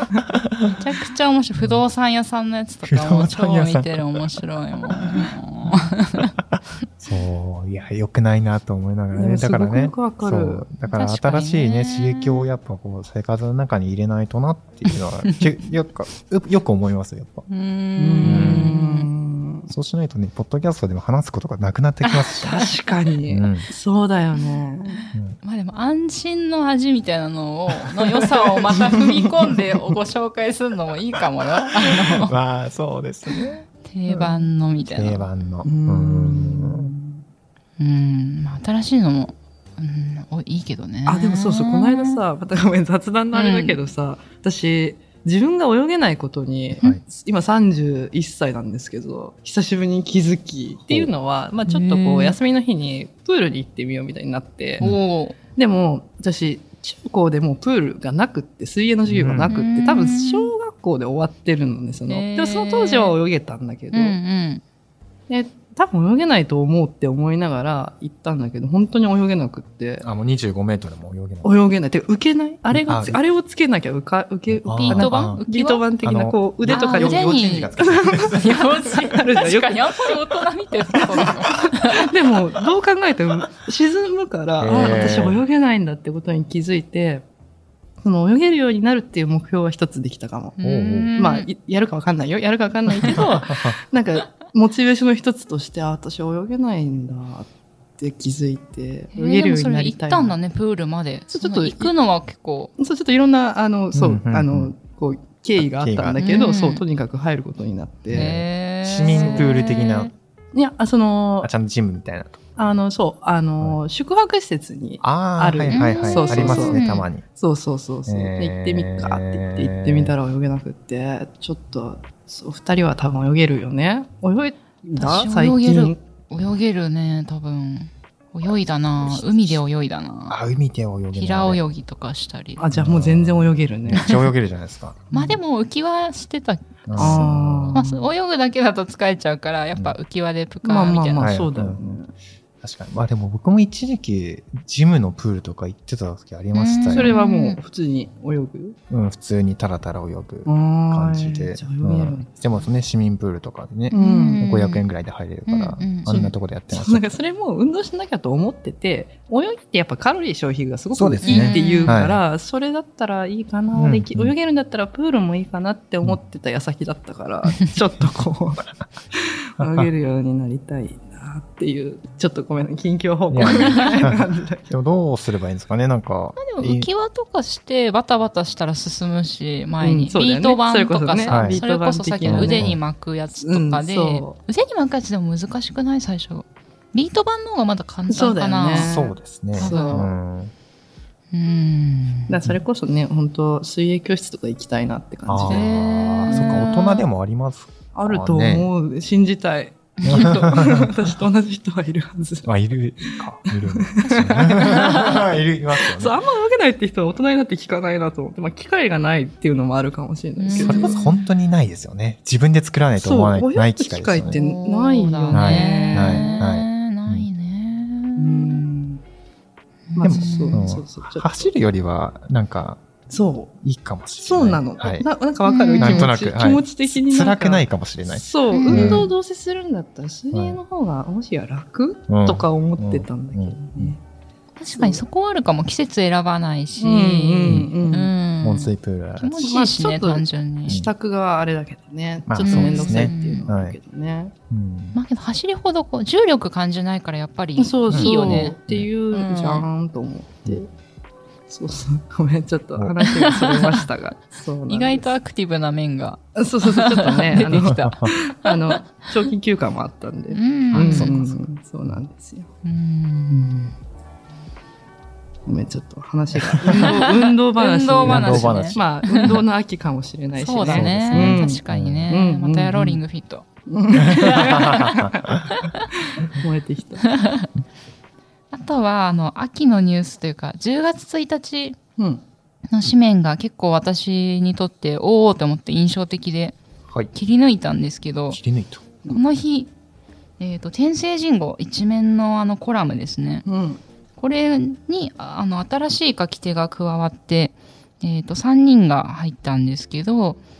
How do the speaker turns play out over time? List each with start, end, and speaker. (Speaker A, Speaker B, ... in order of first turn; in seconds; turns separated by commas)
Speaker A: 0.3-0.7, Speaker B: 0.7-6.3, Speaker A: 2.8-4.2, Speaker A: 4.9-5.9, Speaker A: 6.6-17.5, Speaker C: 9.1-10.7, Speaker B: 10.9-12.4, Speaker B: 17.5-19.1, Speaker C: 18.0-19.7, Speaker A: 18.2-18.7, Speaker A: 19.7-22.6, Speaker B: 22.1-22.5, Speaker C: 22.4-25.0, Speaker A: 23.3-23.7, Speaker B: 24.9-32.3, Speaker A: 31.8-34.3, Speaker B: 33.8-35.2, Speaker A: 34.9-36.9, Speaker C: 35.6-37.2, Speaker B: 37.8-42.2, Speaker C: 41.0-54.8, Speaker B: 43.3-43.8, Speaker B: 51.6-52.4, Speaker B: 54.8-55.4, Speaker C: 55.5-64.2, Speaker A: 59.1-59.5, Speaker B: 59.5-60.5, Speaker B: 62.1-63.1, Speaker B: 63.9-64.6, Speaker C: 65.3-70.1, Speaker A: 70.0-71.5, Speaker C: 71.4-80.2, Speaker A: 72.7-73.2, Speaker A: 74.5-75.4, Speaker B: 74.8-75.8, Speaker A: 76.0-78.9, Speaker B: 76.7-77.7, Speaker B: 78.3-82.1, Speaker C: 80.9-81.3, Speaker C: 81.9-87.2, Speaker A: 84.6-85.4, Speaker C: 88.0-90.6, Speaker B: 90.6-91.5, Speaker A: 90.6-91.1, Speaker C: 91.2-100.4, Speaker A: 93.0-93.8, Speaker B: 99.1-102.7, Speaker C: 101.3-101.9, Speaker C: 102.8-108.3, Speaker A: 103.9-104.7, Speaker A: 105.6-106.2, Speaker B: 106.2-106.8, Speaker A: 108.1-110.1, Speaker B: 108.1-110.1, Speaker C: 109.1-109.5, Speaker C: 110.5-111.5, Speaker A: 111.4-112.6, Speaker C: 112.5-126.0, Speaker A: 115.0-117.2, Speaker B: 115.7-117.1, Speaker A: 118.0-120.1, Speaker B: 125.0-130.4, Speaker A: 130.3-131.6, Speaker B: 131.1-132.6, Speaker C: 132.6-134.2, Speaker A: 132.7-135.1, Speaker B: 135.1-141.3, Speaker C: 135.1-135.4, Speaker A: 136.8-137.8, Speaker C: 137.0-138.0, Speaker C: 140.6-142.1, Speaker A: 141.2-142.0, Speaker A: 142.6-147.1, Speaker B: 146.5-147.6, Speaker C: 146.9-148.8, Speaker A: 148.9-157.2, Speaker C: 150.4-152.4, Speaker C: 153.9-154.4, Speaker B: 153.9-154.8, Speaker B: 155.5-156.3, Speaker C: 156.1-168.7, Speaker A: 160.9-162.2, Speaker B: 161.2-162.0, Speaker A: 163.8-164.3, Speaker C: 169.2-174.7, Speaker A: 169.6-169.9, Speaker A: 173.3-176.9, Speaker B: 173.4-173.9, Speaker B: 176.4-189.0, Speaker C: 179.8-182.8, Speaker A: 181.3-181.6, Speaker A: 182.2-182.8, Speaker C: 183.4-184.4, Speaker C: 188.1-190.1, Speaker A: 188.8-190.5, Speaker B: 189.6-190.1, Speaker B: 191.3-192.4, Speaker C: 192.3-195.7, Speaker A: 195.3-198.7, Speaker B: 195.5-197.0, Speaker C: 196.2-196.7, Speaker C: 197.9-202.5, Speaker B: 200.0-200.4, Speaker A: 200.1-200.9, Speaker A: 202.4-206.2, Speaker C: 203.1-211.0, Speaker B: 204.1-205.2, Speaker B: 210.4-211.2, Speaker A: 210.6-214.3, Speaker C: 213.0-216.4, Speaker B: 214.2-218.6, Speaker A: 215.3-217.2, Speaker C: 218.2-219.0, Speaker B: 219.9-220.7, Speaker C: 219.9-221.5, Speaker A: 220.0-222.8, Speaker C: 223.1-223.6, Speaker A: 223.6-225.1, Speaker C: 224.2-234.0, Speaker B: 225.4-226.1, Speaker A: 225.8-229.1, Speaker B: 228.5-229.1, Speaker A: 230.3-230.6, Speaker A: 232.1-233.9, Speaker B: 234.6-240.8, Speaker C: 234.8-235.0, Speaker C: 236.8-238.1, Speaker A: 237.4-237.7, Speaker A: 238.4-239.5, Speaker C: 239.4-244.3, Speaker A: 242.3-243.8, Speaker B: 242.4-243.4, Speaker A: 244.5-245.0, Speaker B: 244.9-248.5, Speaker C: 247.6-250.7, Speaker A: 247.9-248.9, Speaker B: 249.1-249.7, Speaker C: 251.5-255.1, Speaker B: 253.0-253.8, Speaker B: 254.7-258.5, Speaker C: 256.3-262.5, Speaker A: 257.4-258.1, Speaker B: 260.3-261.3, Speaker A: 260.7-261.2, Speaker B: 262.6-263.7, Speaker C: 265.4-273.0, Speaker B: 266.7-269.4, Speaker A: 268.0-268.8, Speaker B: 270.3-275.9, Speaker A: 270.6-272.1, Speaker C: 273.7-275.3, Speaker A: 274.0-275.4, Speaker C: 276.0-277.1, Speaker B: 277.1-277.5, Speaker B: 278.5-281.8, Speaker C: 282.0-282.2, Speaker B: 282.7-286.6, Speaker B: 287.1-288.4, Speaker A: 288.3-288.9, Speaker B: 289.1-289.7, Speaker B: 290.4-293.4, Speaker C: 293.4-293.8, Speaker B: 294.2-300.4